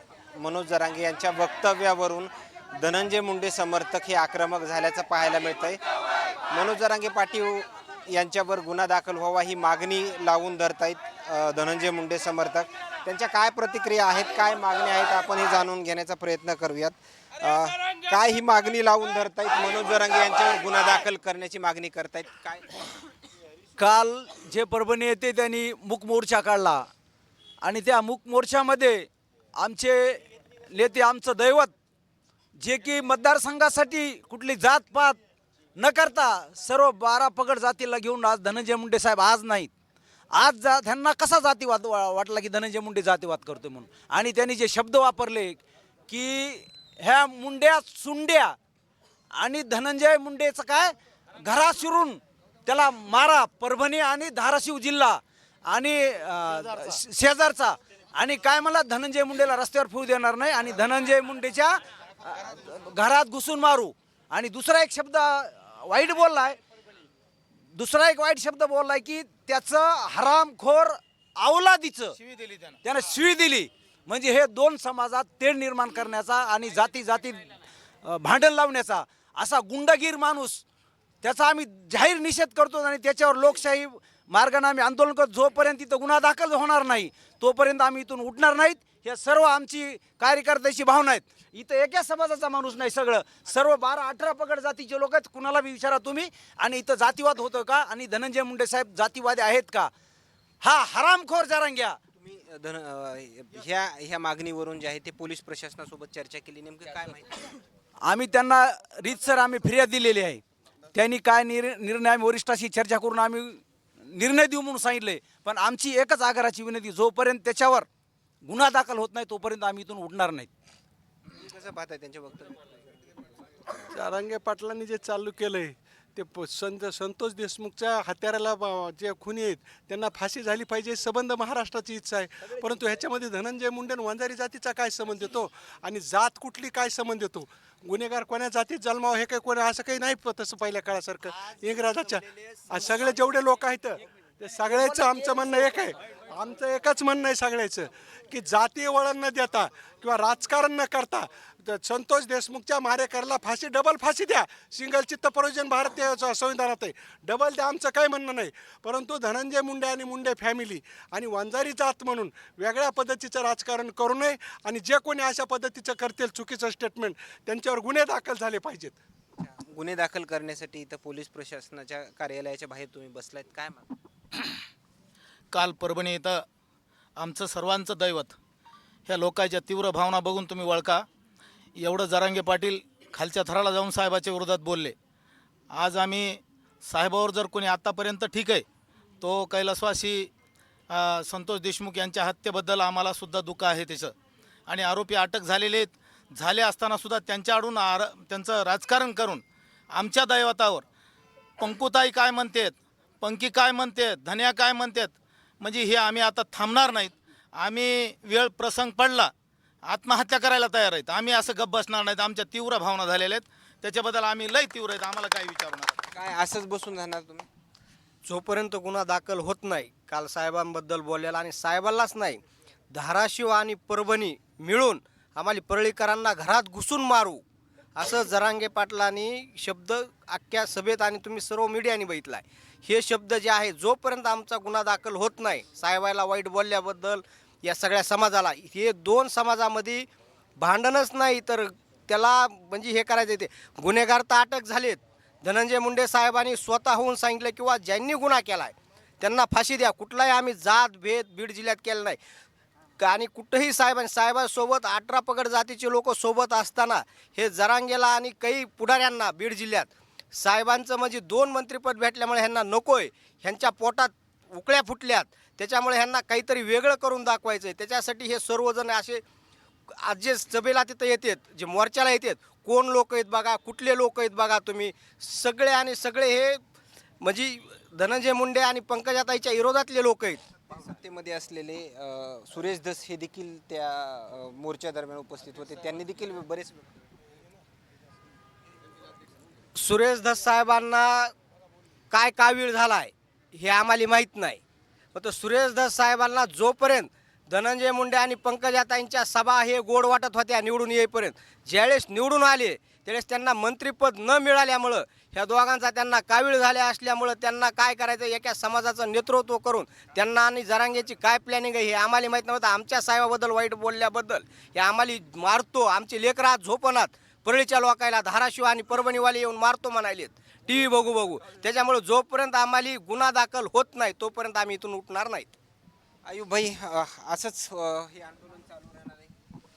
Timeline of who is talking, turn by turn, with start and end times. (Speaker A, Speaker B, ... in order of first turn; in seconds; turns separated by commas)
Speaker A: 0.3-5.8, Speaker A: 6.5-22.7, Speaker B: 23.8-26.9, Speaker B: 27.6-31.7, Speaker B: 32.6-35.2, Speaker B: 35.8-39.7, Speaker B: 40.3-48.5, Speaker B: 49.3-66.6, Speaker B: 67.7-72.2, Speaker C: 72.2-72.8, Speaker B: 72.8-80.6, Speaker B: 81.2-99.9, Speaker B: 100.6-102.0, Speaker A: 102.2-107.5, Speaker B: 108.0-117.9, Speaker B: 118.4-120.5, Speaker A: 121.3-122.6, Speaker D: 123.9-169.0, Speaker A: 169.4-173.8, Speaker C: 175.5-176.4, Speaker C: 177.2-178.3, Speaker C: 179.1-181.1, Speaker C: 181.8-184.9, Speaker C: 185.7-188.6, Speaker C: 189.2-190.3, Speaker C: 190.9-194.1, Speaker C: 194.7-200.8, Speaker C: 201.6-209.3, Speaker C: 209.8-216.0, Speaker A: 216.1-217.4, Speaker E: 218.2-227.4, Speaker E: 227.9-240.1, Speaker E: 240.6-252.2, Speaker E: 253.0-269.2, Speaker E: 270.0-276.6, Speaker E: 277.2-280.4, Speaker A: 280.7-286.9, Speaker E: 289.8-291.3, Speaker E: 292.1-294.6, Speaker E: 295.1-325.5, Speaker A: 326.2-329.3